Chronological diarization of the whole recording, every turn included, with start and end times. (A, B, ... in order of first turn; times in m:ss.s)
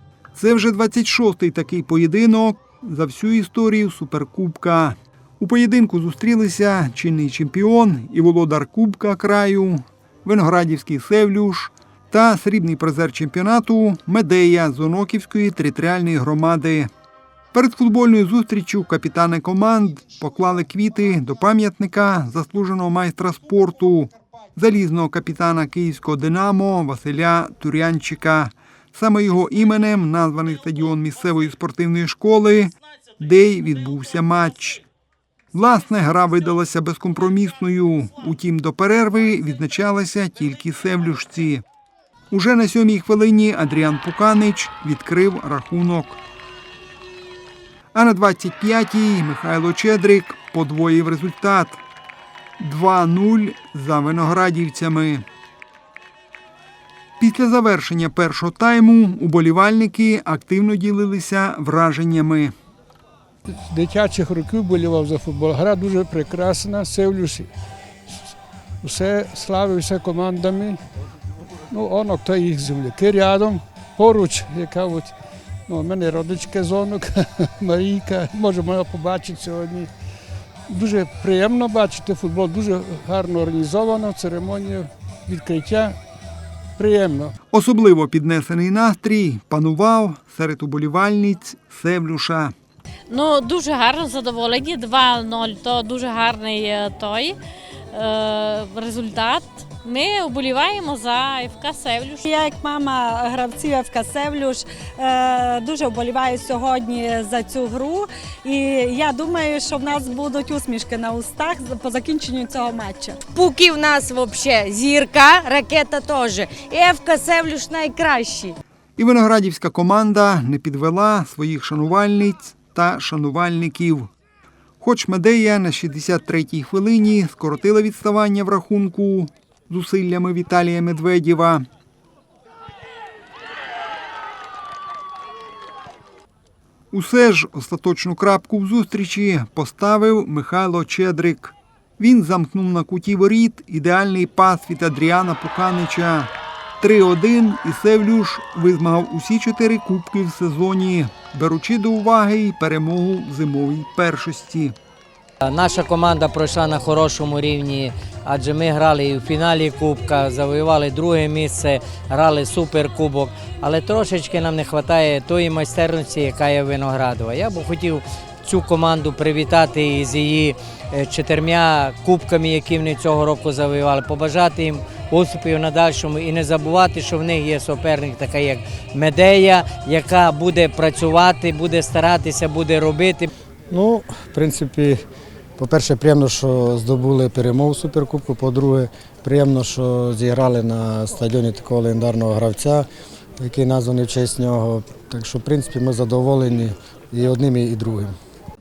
0:00.4-0:16.9 A
0:17.5-0:34.8 A
0:35.5-0:41.6 A
0:42.3-0:46.2 A
0:47.9-0:51.8 A
0:52.6-0:55.2 A
0:57.2-1:02.5 A
1:03.5-1:07.5 B
1:08.1-1:10.8 B
1:11.7-1:15.2 B
1:15.7-1:19.9 B
1:20.7-1:26.0 B
1:26.8-1:27.4 B
1:27.5-1:32.5 A
1:33.1-1:37.4 C
1:37.9-1:42.2 C
1:42.2-1:53.2 D
1:53.3-1:58.6 E
1:59.0-2:04.1 A
2:04.8-2:11.6 A
2:16.9-2:34.8 A
2:35.4-3:03.3 F
3:03.7-3:05.0 G
3:05.6-3:12.8 G
3:13.4-3:18.1 G